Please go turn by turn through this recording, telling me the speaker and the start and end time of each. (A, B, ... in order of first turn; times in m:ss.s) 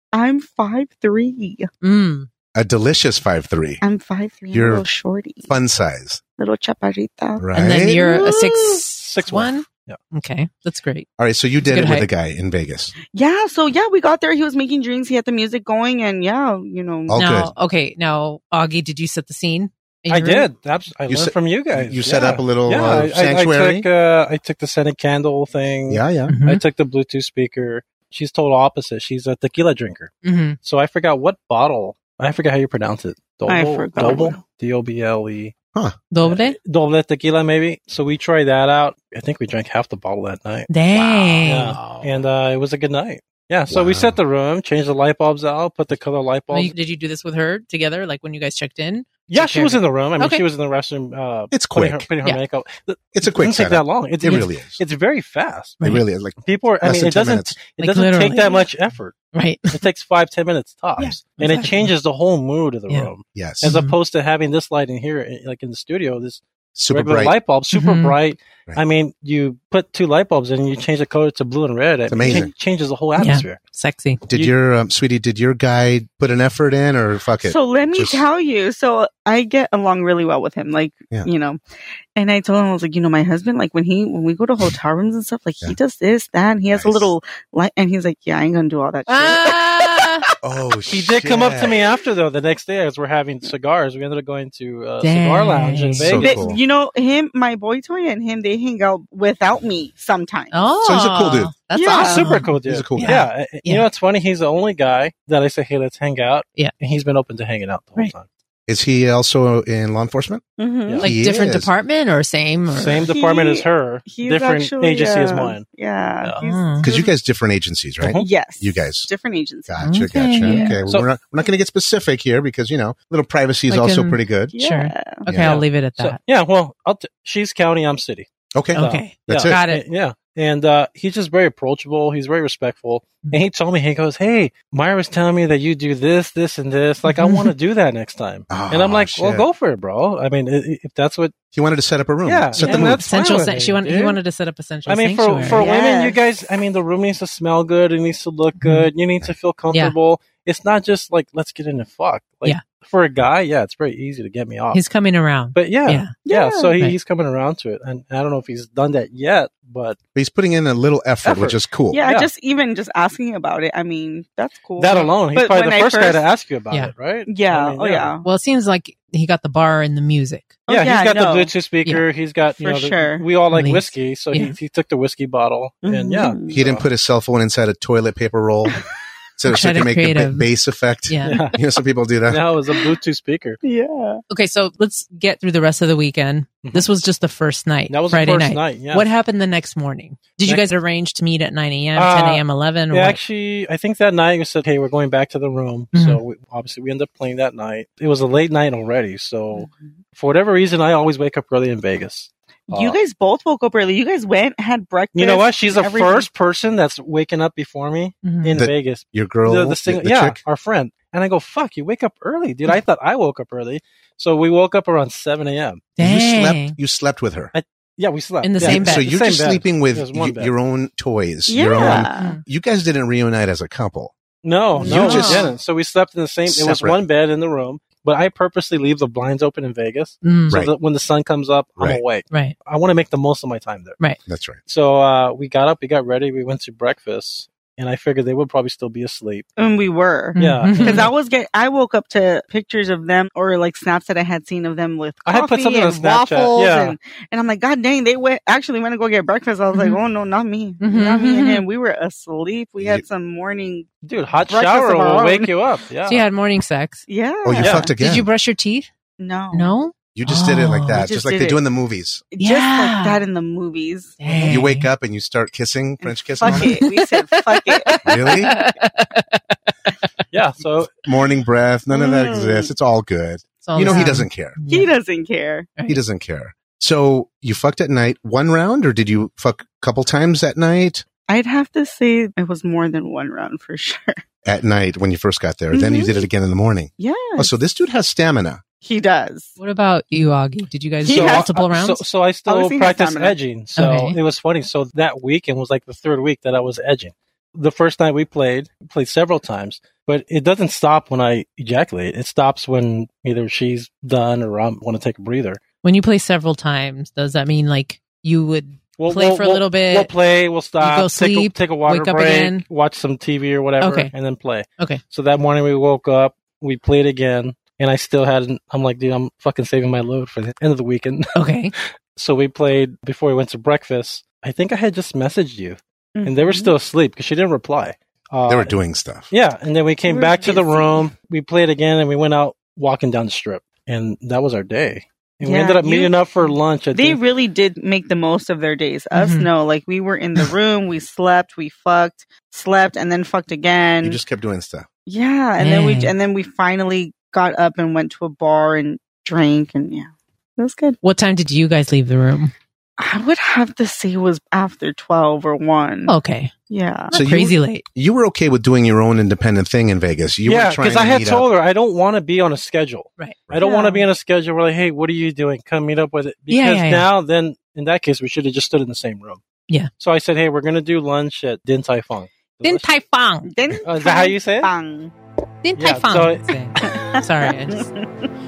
0:00.1-0:01.7 A
0:01.8-0:02.3 B
0:02.5-0:03.8 C
0:03.8-0:05.5 A
0:04.5-0:04.9 C
0:05.5-0:06.2 C
0:06.4-0:08.8 A
0:07.4-0:08.0 C
0:07.5-0:11.1 B
0:09.0-0:10.0 D
0:11.2-0:12.9 C
0:11.6-0:12.1 B
0:13.1-0:17.2 A
0:17.1-0:17.5 C
0:17.2-0:20.5 B
0:20.1-0:30.1 D
0:21.1-0:23.9 C
0:25.9-0:26.3 C
0:26.3-0:26.6 B
0:30.2-0:30.6 B
0:30.6-0:35.5 D
0:33.5-0:34.4 A
0:36.1-0:36.6 B
0:36.2-0:40.7 D
0:40.7-0:41.8 B
0:40.9-0:42.2 C
0:41.4-0:46.7 D
0:43.7-0:44.2 C
0:46.5-0:50.4 B
0:49.3-0:55.8 D
0:51.5-0:52.1 C
0:53.1-0:54.8 C
0:54.2-0:54.5 B
0:55.8-0:57.5 C
0:56.4-0:59.2 D
0:57.8-0:58.6 B
0:59.3-0:59.8 B
0:59.7-1:13.6 D
1:01.0-1:01.9 B
1:03.3-1:03.7 C
1:03.6-1:04.0 B
1:06.8-1:07.3 C
1:07.7-1:08.1 B
1:12.1-1:12.5 C
1:13.2-1:14.2 B
1:14.3-1:18.2 C
1:17.4-1:21.6 A
1:22.1-1:30.2 A
1:26.7-1:27.1 C
1:29.1-1:30.3 B
1:30.4-1:31.8 C
1:30.9-1:36.6 D
1:35.0-1:36.2 B
1:36.0-1:36.6 C
1:36.2-1:40.6 A
1:40.5-1:43.9 B
1:40.8-1:41.5 C
1:41.7-1:42.4 A
1:41.9-1:48.2 D
1:42.5-1:43.2 C
1:48.7-1:50.4 C
1:50.6-1:51.1 A
1:51.0-1:53.1 B
1:51.0-1:51.7 C
1:52.7-1:55.6 D
1:53.1-1:57.1 A
1:56.4-1:56.9 B
1:56.8-1:59.1 C
1:58.0-1:58.3 D
1:58.1-2:00.8 A
1:59.7-2:04.5 C
1:59.8-2:00.8 B
2:03.7-2:06.2 B
2:04.5-2:05.2 A
2:05.2-2:05.6 C
2:05.3-2:21.3 D
2:08.5-2:09.6 C
2:08.7-2:09.8 B
2:17.1-2:17.5 B
2:18.5-2:19.4 C
2:21.5-2:23.0 C
2:22.2-2:24.2 D
2:22.6-2:25.6 B
2:24.9-2:34.8 D
2:25.4-2:26.2 A
2:28.6-2:28.9 B
2:34.7-2:36.1 B
2:35.5-2:40.0 D
2:36.2-2:36.7 A
2:40.1-2:42.0 C
2:41.2-2:46.2 A
2:42.0-2:42.3 D
2:44.8-2:48.1 D
2:47.3-2:48.2 A
2:48.2-2:50.5 B
2:50.7-2:51.5 A
2:50.7-2:56.9 D
2:52.6-2:53.2 A
2:53.5-2:54.6 B
2:55.8-2:56.6 A
2:56.5-2:58.8 C
2:59.4-3:02.4 C
2:59.5-3:00.5 B
3:01.1-3:01.4 B
3:01.2-3:01.6 D
3:02.3-3:03.6 D
3:03.6-3:04.2 A
3:04.3-3:13.2 B
3:07.9-3:09.1 D
3:11.9-3:23.0 D
3:15.9-3:16.2 B
3:22.7-3:26.3 A
3:25.1-3:35.8 D
3:28.2-3:28.6 B
3:28.5-3:30.4 C
3:36.0-3:36.8 B
3:36.0-3:37.5 C
3:37.5-3:40.5 D
3:38.4-3:39.1 B
3:38.6-3:44.1 C
3:41.5-3:42.3 A
3:41.8-3:42.4 B
3:44.4-3:54.0 D
3:44.8-3:45.5 A
3:44.8-3:45.5 C
3:44.8-3:45.5 B
3:46.5-3:47.0 C
3:50.2-3:50.5 B
3:54.3-3:54.6 C
3:54.6-3:59.5 D
3:59.6-4:13.9 A
4:00.3-4:01.1 B
4:00.4-4:01.1 D
4:05.2-4:07.0 D
4:09.7-4:10.0 B
4:10.8-4:11.6 B
4:12.8-4:13.0 C
4:14.0-4:16.3 D
4:14.5-4:15.5 A
4:16.0-4:17.0 B
4:17.1-4:17.9 A
4:17.4-4:18.3 C
4:17.6-4:17.9 D
4:17.9-4:18.9 B
4:19.2-4:19.7 A
4:19.5-4:21.0 B
4:20.1-4:22.2 C
4:20.9-4:21.6 A
4:22.3-4:24.4 A
4:22.4-4:23.2 B
4:24.2-4:24.9 B
4:24.5-4:26.8 C
4:26.0-4:28.6 A
4:26.4-4:29.5 B
4:28.0-4:28.5 C
4:30.3-4:30.9 D
4:30.9-4:34.6 C
4:31.9-4:32.7 A
4:33.6-4:34.9 B
4:33.9-4:34.1 A
4:34.7-4:35.7 A
4:35.9-4:41.0 C
4:41.3-4:44.2 A
4:44.4-4:48.6 C
4:45.7-4:46.2 A
4:47.0-4:47.5 A
4:48.8-4:49.6 A
4:49.6-4:52.0 B
4:51.0-4:51.5 A
4:51.0-5:05.6 D
4:52.5-4:53.4 A
4:53.8-4:54.2 B
5:05.8-5:10.1 B
5:09.0-5:21.4 D
5:10.8-5:12.6 B
5:13.8-5:14.1 B
5:21.3-5:21.7 B
5:22.1-5:28.8 D
5:26.2-5:26.7 A
5:28.5-5:29.3 C
5:29.3-5:37.2 D
5:30.1-5:31.0 A
5:35.4-5:36.2 A
5:36.9-5:44.2 A
5:39.1-5:39.5 B
5:44.0-5:44.9 C
5:45.0-5:51.0 A
5:45.6-5:46.1 B
5:51.0-5:52.5 B
5:53.0-5:56.2 A
5:56.1-5:56.5 B
5:56.7-5:57.1 A
5:57.1-5:57.9 B
5:57.1-6:01.5 C
6:00.4-6:09.4 D
6:03.6-6:04.1 A
6:06.5-6:07.1 B
6:10.0-6:12.9 D
6:12.6-6:13.5 B
6:13.4-6:15.1 A
6:13.8-6:14.7 D
6:15.6-6:17.9 B
6:15.8-6:16.5 D
6:16.8-6:18.3 A